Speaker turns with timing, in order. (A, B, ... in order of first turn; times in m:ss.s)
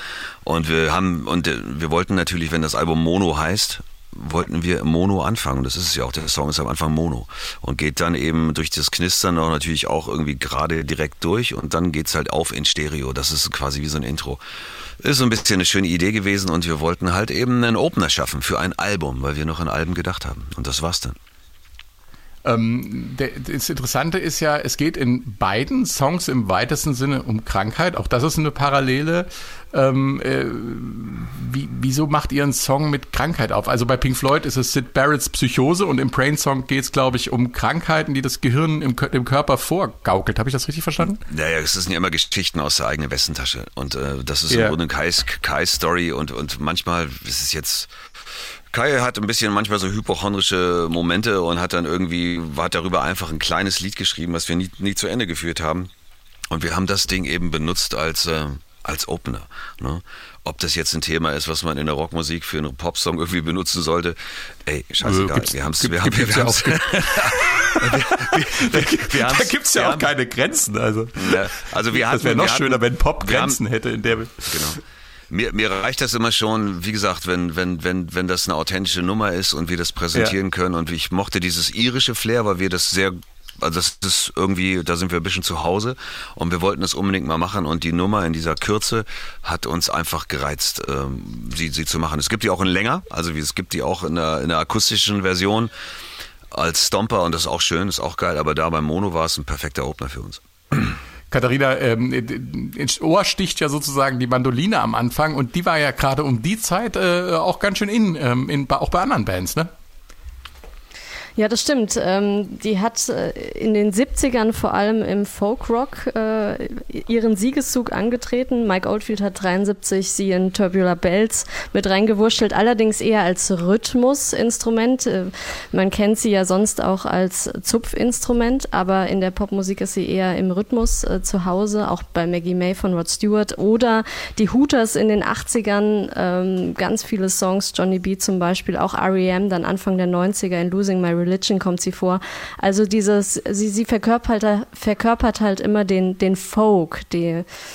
0:00.4-0:14.4 A
0:15.0-0:21.2 A
0:22.4-0:41.2 B
0:41.3-0:47.9 A
0:44.5-0:44.8 B
0:48.7-0:55.9 A
0:56.5-1:10.1 A
1:05.0-1:14.8 B
1:11.1-1:13.6 A
1:14.4-1:35.8 A
1:36.5-1:40.9 A
1:41.3-1:49.7 B
1:51.4-2:27.4 C